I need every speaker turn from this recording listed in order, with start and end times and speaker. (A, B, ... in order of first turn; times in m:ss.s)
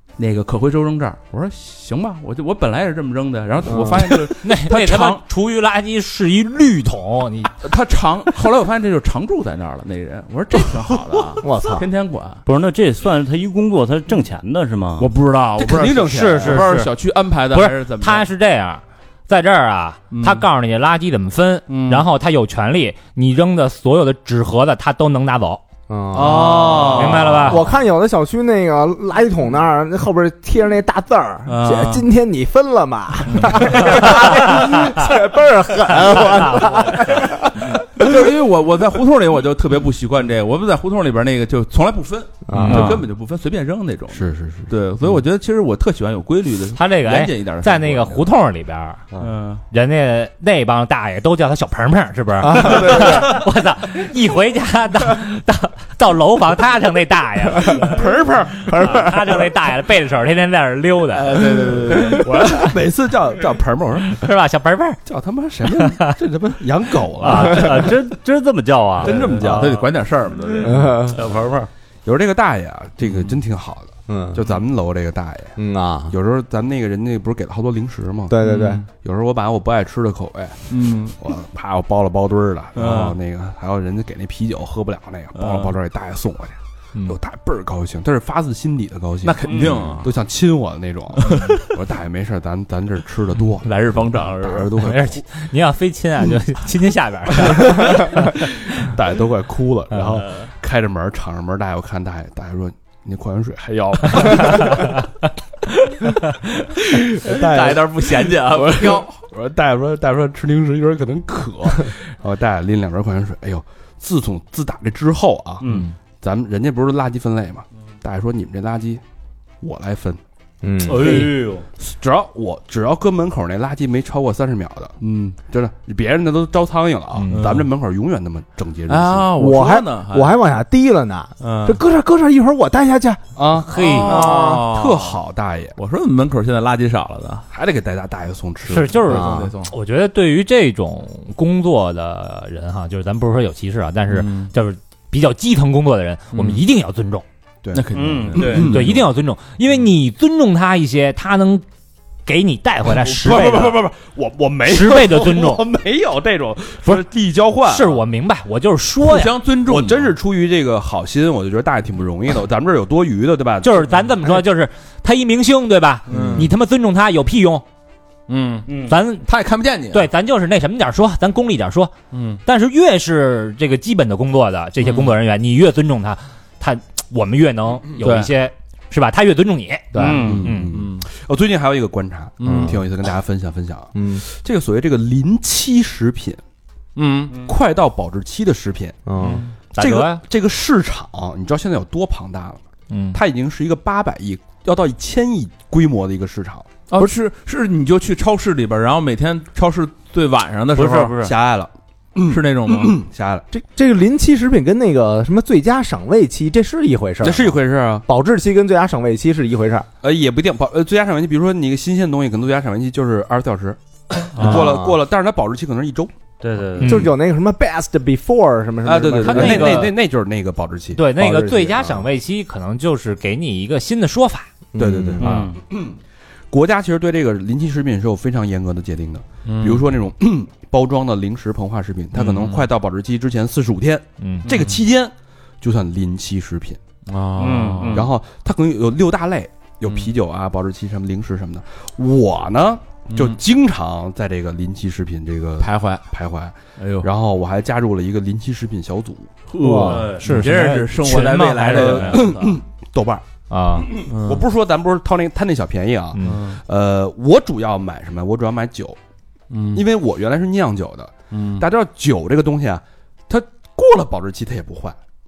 0:00.2-0:05.2 A
0:03.6-0:04.3 B
0:04.4-0:07.5 C
0:07.6-0:12.4 A
0:11.4-0:11.9 B
0:12.4-0:15.1 D
0:15.0-0:18.3 A
0:15.6-0:16.7 E
0:16.1-0:16.9 C
0:17.5-0:25.6 C
0:20.1-0:20.5 A
0:21.7-0:22.1 A
0:25.9-0:38.2 B
0:26.1-0:27.4 E
0:26.1-0:27.7 A
0:26.9-0:27.7 C
0:31.5-0:32.0 A
0:33.3-0:34.2 A
0:34.2-0:34.7 C
0:37.1-0:48.3 A
0:42.5-0:43.0 B
0:42.6-0:43.0 C
0:44.1-0:44.7 E
0:46.7-0:49.1 C
0:49.2-0:49.6 A
0:49.7-0:58.0 C
0:52.4-0:53.4 B
0:53.0-0:53.4 A
0:57.9-0:59.0 E
0:58.7-1:02.8 C
0:58.9-0:59.2 B
1:01.1-1:02.5 A
1:02.1-1:04.2 E
1:04.1-1:05.0 C
1:05.1-1:07.9 E
1:05.6-1:06.2 C
1:07.2-1:09.9 D
1:09.0-1:09.7 E
1:09.0-1:11.4 A
1:10.6-1:11.2 B
1:11.1-1:11.7 D
1:12.0-1:15.6 E
1:14.1-1:14.4 B
1:15.6-1:16.1 B
1:16.1-1:18.4 E
1:18.3-1:18.8 B
1:18.4-1:18.8 A
1:19.0-1:35.2 E
1:20.7-1:21.2 A
1:22.7-1:23.2 A
1:25.4-1:25.7 A
1:29.2-1:30.1 A
1:29.4-1:29.8 D
1:31.2-1:31.7 A
1:33.6-1:34.8 A
1:34.7-1:38.9 C
1:38.7-1:44.9 E
1:40.1-1:40.5 A
1:44.3-1:44.6 A
1:46.6-1:49.1 A
1:47.2-1:55.7 E
1:55.6-1:55.9 A
1:56.2-1:59.0 E
1:59.6-2:00.2 E
2:00.6-2:01.3 B
2:00.8-2:01.6 A
2:01.8-2:09.3 E
2:07.2-2:07.4 C
2:07.3-2:07.7 A
2:08.9-2:10.4 A
2:09.4-2:13.2 B
2:11.4-2:11.8 A
2:13.4-2:15.8 E
2:13.7-2:14.3 C
2:13.7-2:15.2 A
2:13.9-2:14.7 B
2:15.8-2:17.4 A
2:17.5-2:19.4 E
2:18.7-2:27.2 C
2:19.0-2:19.7 A
2:24.1-2:24.5 A
2:26.3-2:26.6 A
2:27.6-2:28.9 E
2:27.7-2:29.1 A
2:27.9-2:28.5 D
2:28.5-2:31.6 C
2:32.3-2:33.8 C
2:33.0-2:38.0 E
2:34.7-2:35.7 C
2:37.6-2:39.4 C
2:39.0-2:40.1 A
2:39.7-2:43.9 E
2:43.6-2:47.6 C
2:46.1-2:46.5 A
2:48.3-2:50.1 A
2:48.7-2:48.9 D
2:48.8-2:49.3 C
2:49.9-2:51.9 C
2:52.1-2:52.4 A
2:52.4-3:00.7 C
2:54.8-2:55.2 A
2:58.0-2:58.4 A
2:59.9-3:00.3 B
3:00.0-3:01.1 A
3:00.0-3:00.4 D
3:00.2-3:06.4 E
3:02.4-3:02.8 A
3:02.4-3:02.8 B
3:03.9-3:04.2 B
3:07.0-3:07.4 A
3:07.4-3:09.0 E
3:09.1-3:09.4 B
3:09.2-3:09.5 A
3:09.3-3:10.2 C
3:09.8-3:12.6 E
3:12.9-3:13.2 C
3:13.1-3:16.7 E
3:16.9-3:21.3 A
3:20.7-3:21.3 D
3:21.2-3:23.4 E
3:22.3-3:23.0 A
3:23.5-3:29.9 B
3:27.2-3:28.0 E
3:30.0-3:36.1 E
3:34.4-3:35.0 B
3:34.4-3:34.7 D
3:36.4-3:37.1 D
3:36.8-3:37.1 C
3:36.8-3:39.8 B
3:38.8-3:41.1 E
3:39.3-3:39.9 C
3:39.3-3:39.8 A
3:41.0-3:44.5 C
3:41.2-3:42.1 B
3:44.7-3:45.4 B
3:44.8-3:46.0 E
3:45.2-3:45.6 D
3:46.5-3:56.8 E
3:49.4-3:49.9 A
3:52.1-3:52.7 A
3:54.2-3:54.5 C
3:54.4-3:54.8 A
3:57.1-3:58.1 A
3:57.4-3:58.1 D
3:57.9-4:09.3 E
3:59.8-4:00.1 A
4:03.1-4:03.4 A
4:05.6-4:06.1 A
4:06.8-4:07.1 A
4:09.5-4:12.6 A
4:09.6-4:10.2 B
4:09.8-4:12.3 C
4:11.7-4:13.2 E
4:13.5-4:14.0 C
4:13.8-4:19.0 E
4:14.1-4:14.4 A
4:16.1-4:16.4 C
4:16.2-4:16.6 A
4:19.5-4:19.9 A
4:19.7-4:25.0 E
4:21.3-4:21.7 A